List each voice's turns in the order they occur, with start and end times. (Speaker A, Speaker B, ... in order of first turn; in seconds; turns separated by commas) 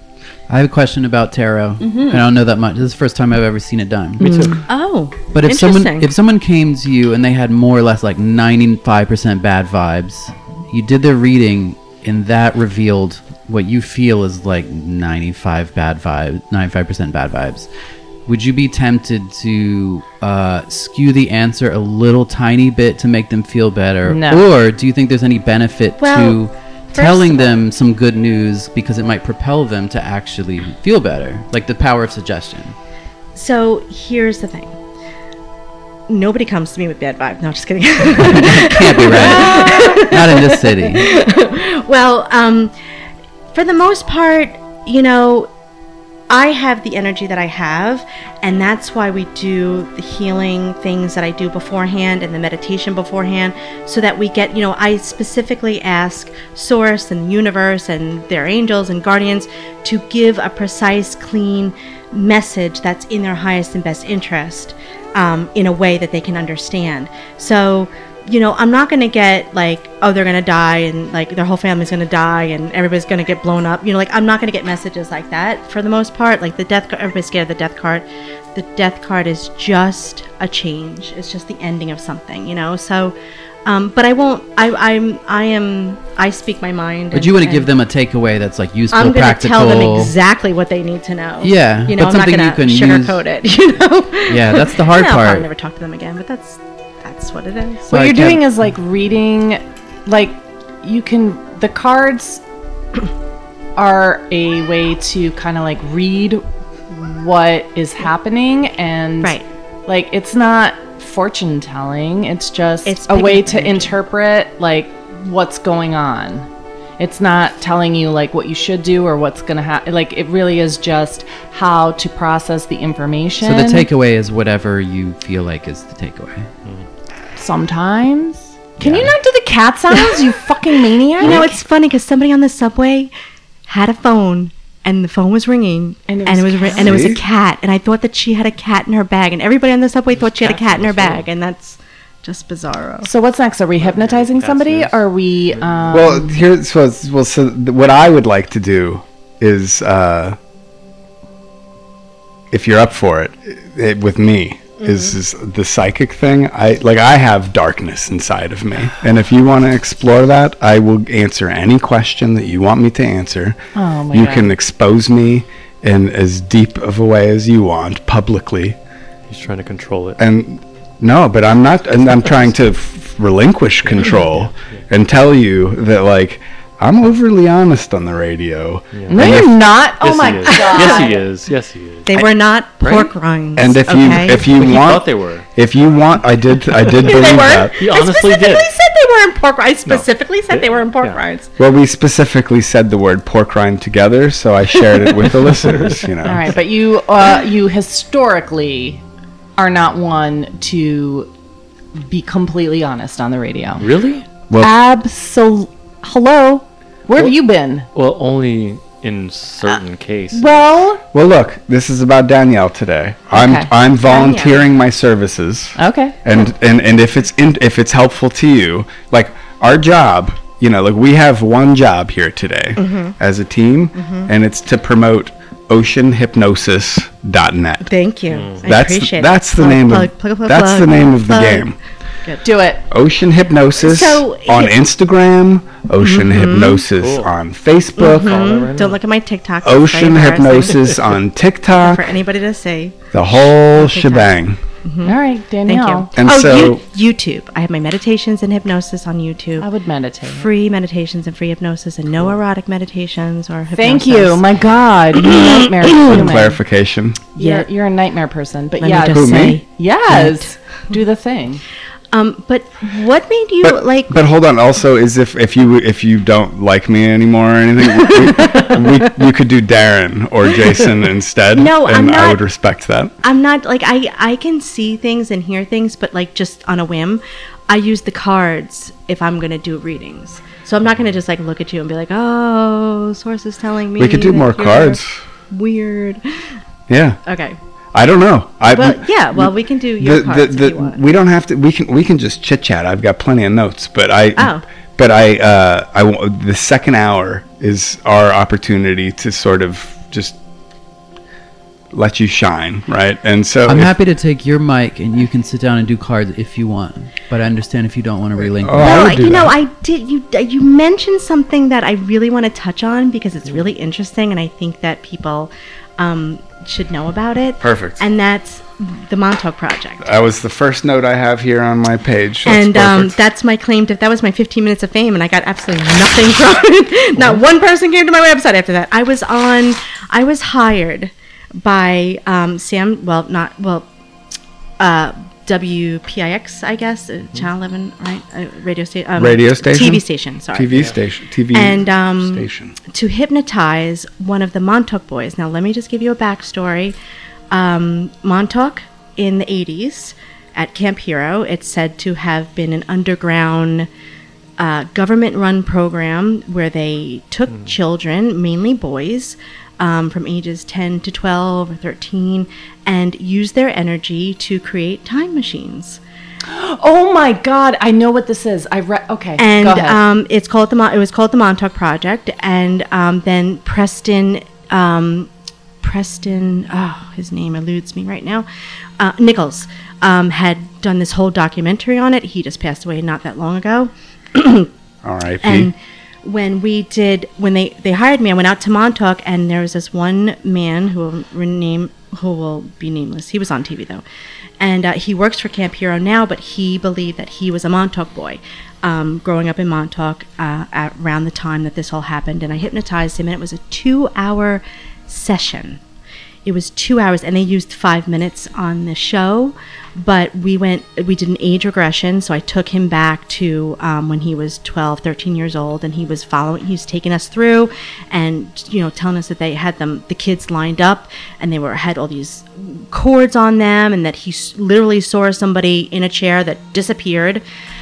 Speaker A: 0.5-4.6, Speaker B: 1.9-2.2, Speaker B: 4.3-6.1, Speaker A: 5.3-17.7, Speaker A: 18.3-32.8, Speaker C: 24.1-24.5, Speaker B: 26.0-26.4, Speaker B: 26.9-27.6, Speaker B: 33.4-34.8, Speaker B: 36.1-42.7, Speaker A: 38.2-41.0, Speaker B: 43.5-45.5, Speaker B: 46.3-87.7, Speaker A: 87.1-90.1, Speaker B: 88.9-97.9, Speaker A: 91.4-93.2, Speaker A: 94.3-95.5, Speaker A: 97.9-98.5, Speaker C: 97.9-102.4, Speaker C: 103.8-116.5, Speaker B: 109.2-109.5, Speaker B: 112.8-114.0, Speaker C: 117.0-123.9, Speaker A: 123.4-126.5, Speaker C: 127.4-131.6, Speaker A: 128.8-129.2, Speaker B: 129.9-133.1, Speaker B: 133.7-143.1, Speaker C: 136.1-137.1, Speaker D: 136.8-137.2, Speaker E: 140.1-141.3, Speaker C: 143.0-146.4, Speaker E: 143.8-146.0, Speaker D: 145.9-150.4, Speaker D: 152.5-163.6, Speaker B: 154.8-155.2, Speaker C: 163.8-164.5, Speaker D: 164.1-168.8, Speaker E: 169.3-170.2, Speaker D: 170.2-179.5, Speaker E: 172.2-172.5, Speaker E: 173.8-174.8, Speaker E: 178.9-182.2, Speaker C: 179.1-181.2, Speaker B: 180.5-181.1, Speaker B: 182.1-184.8, Speaker E: 182.8-183.1, Speaker D: 183.6-187.7, Speaker E: 184.4-185.5, Speaker E: 186.7-188.7, Speaker B: 187.0-191.5, Speaker E: 189.9-191.2, Speaker D: 191.6-196.5, Speaker E: 195.6-196.0, Speaker C: 196.2-199.0, Speaker C: 199.6-201.3, Speaker C: 202.0-203.9, Speaker E: 203.8-204.2, Speaker C: 204.6-207.9, Speaker E: 207.9-210.7, Speaker C: 210.3-211.0, Speaker D: 211.1-227.9, Speaker C: 213.3-213.7, Speaker B: 214.0-214.7, Speaker C: 215.8-216.2, Speaker B: 222.8-223.2, Speaker B: 224.0-224.3, Speaker B: 227.8-231.7, Speaker E: 228.3-228.7, Speaker D: 228.6-231.8, Speaker B: 232.2-232.6, Speaker C: 232.4-232.8, Speaker D: 232.9-238.4, Speaker B: 233.8-234.8, Speaker B: 236.0-236.8, Speaker E: 236.9-237.3, Speaker B: 238.0-240.9, Speaker E: 238.0-239.0, Speaker D: 239.6-242.0, Speaker E: 240.7-241.0, Speaker B: 241.7-249.7, Speaker D: 243.1-244.6, Speaker C: 245.0-246.1, Speaker D: 246.2-246.8, Speaker C: 249.6-250.5, Speaker B: 250.3-254.5, Speaker C: 253.7-256.6, Speaker B: 255.2-255.6, Speaker D: 256.1-257.2, Speaker B: 257.4-257.7, Speaker C: 257.4-261.6, Speaker B: 258.7-260.9, Speaker D: 259.1-259.6, Speaker B: 262.1-264.2, Speaker D: 263.6-273.1, Speaker B: 268.0-269.1, Speaker B: 270.5-270.9, Speaker B: 271.5-272.4, Speaker B: 273.2-286.5, Speaker D: 284.0-285.2, Speaker D: 286.9-287.2, Speaker B: 287.3-287.6, Speaker D: 287.9-300.4, Speaker B: 288.6-291.1, Speaker B: 294.4-294.6, Speaker D: 301.9-303.9, Speaker A: 303.7-309.2, Speaker D: 308.6-309.5, Speaker B: 308.8-320.1, Speaker D: 317.6-318.0, Speaker D: 320.0-323.2, Speaker B: 322.4-333.9, Speaker B: 334.8-340.9, Speaker D: 339.2-342.8, Speaker E: 340.7-341.0, Speaker B: 341.5-347.0, Speaker B: 347.5-353.9, Speaker B: 354.6-366.0, Speaker C: 366.5-370.0, Speaker B: 369.4-375.3, Speaker B: 375.8-378.5, Speaker B: 379.0-384.7, Speaker D: 385.0-385.7, Speaker B: 385.4-394.0, Speaker B: 394.6-405.8, Speaker B: 406.4-427.4